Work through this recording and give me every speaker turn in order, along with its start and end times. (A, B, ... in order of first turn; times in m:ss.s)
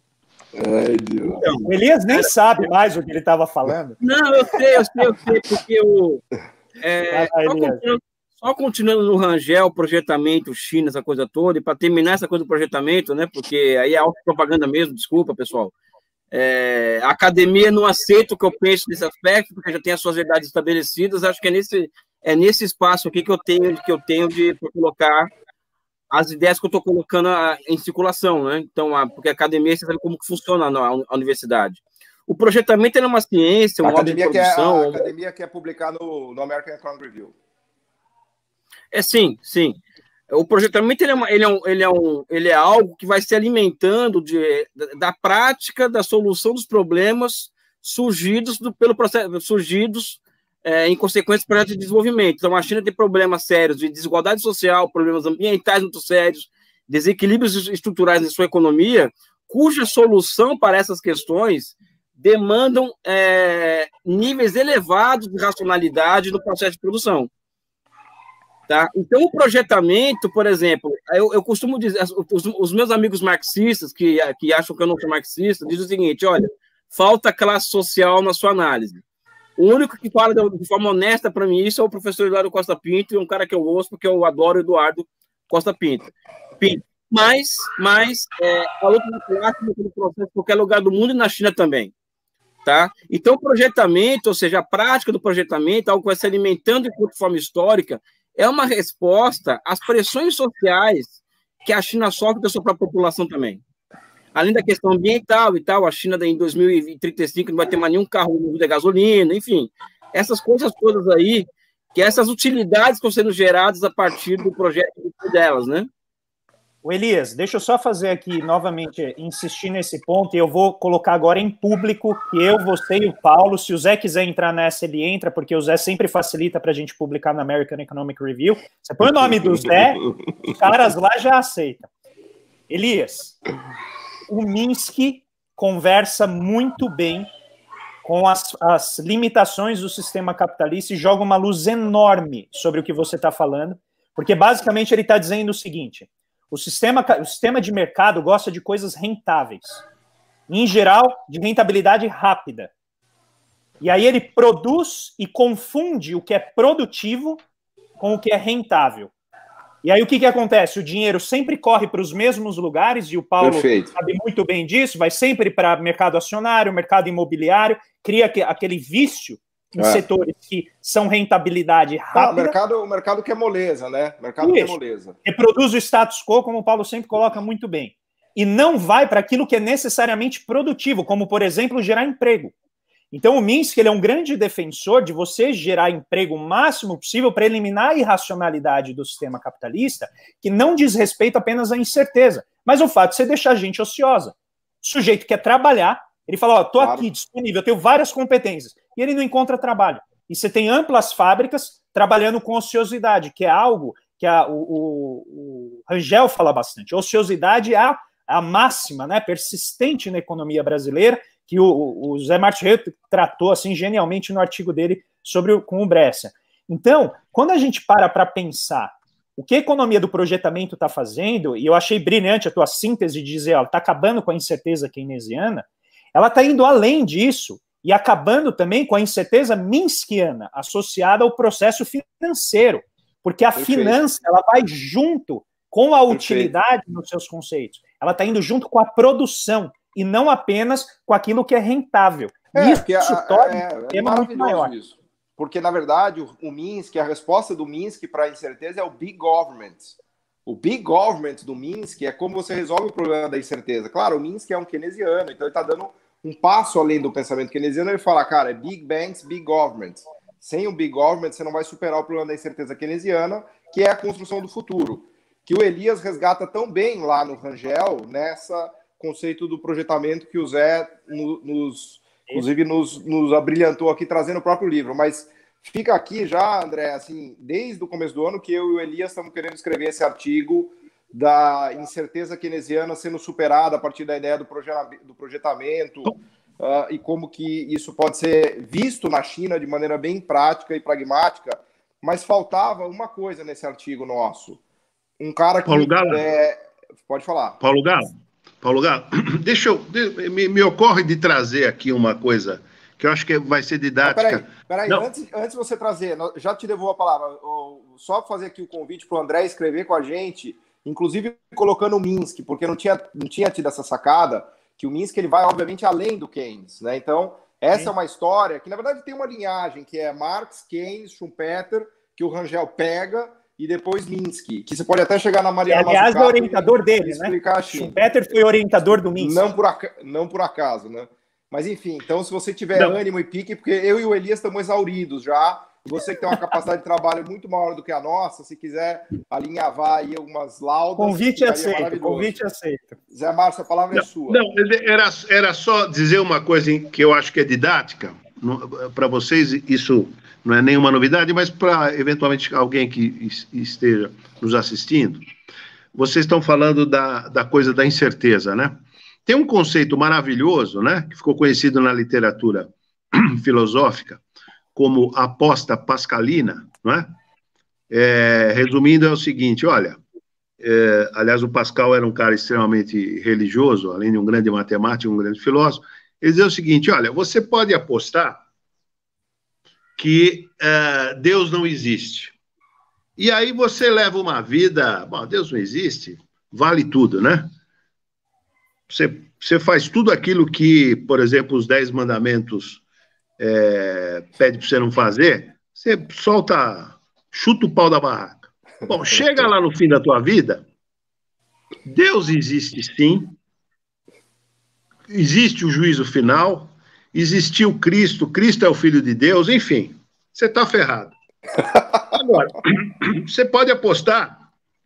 0:00.6-0:01.5 A
0:01.4-0:04.0 B
0:04.0-0:06.2 C
0:06.8-0:15.7 C
0:07.1-0:07.8 B
0:16.3-0:25.3 C
0:26.1-0:35.1 C
0:33.8-0:37.4 A
0:38.9-0:39.8 C
0:40.3-1:07.3 C
1:08.7-1:19.0 C
1:19.6-1:31.9 C
1:32.6-1:41.1 C
1:41.6-1:43.6 C
1:44.4-1:55.9 C
1:56.8-2:11.9 B
2:09.0-2:10.0 A
2:12.7-2:13.4 B
2:14.3-2:17.3 B
2:18.0-2:29.8 B
2:30.5-2:32.7 B
2:33.8-2:37.4 B
2:38.0-2:39.1 B
2:39.8-2:52.6 B
2:43.4-2:44.0 A
2:49.8-2:50.0 A
2:52.1-2:55.2 A
2:54.4-3:02.5 B
3:03.1-4:04.7 B
3:16.8-3:17.1 A
3:53.6-3:54.0 A
3:56.1-3:56.5 A
4:02.5-4:10.0 A
4:10.5-4:54.6 A
4:55.2-4:57.6 A
4:55.7-4:56.2 D
4:57.6-5:05.1 D
5:04.0-5:28.0 A
5:25.7-5:29.5 B
5:29.2-5:42.4 A
5:41.0-5:43.0 B
5:43.1-5:44.4 A
5:43.9-5:55.2 D
5:56.0-5:58.7 D
5:59.3-6:04.2 D
6:04.8-6:07.1 D
6:07.9-6:10.0 D
6:10.6-6:18.4 D
6:20.0-6:22.3 D
6:23.2-6:27.5 D
6:28.9-6:32.8 D
6:33.4-6:40.6 D
6:41.8-6:43.4 D
6:45.1-6:51.1 D
6:52.1-6:54.4 D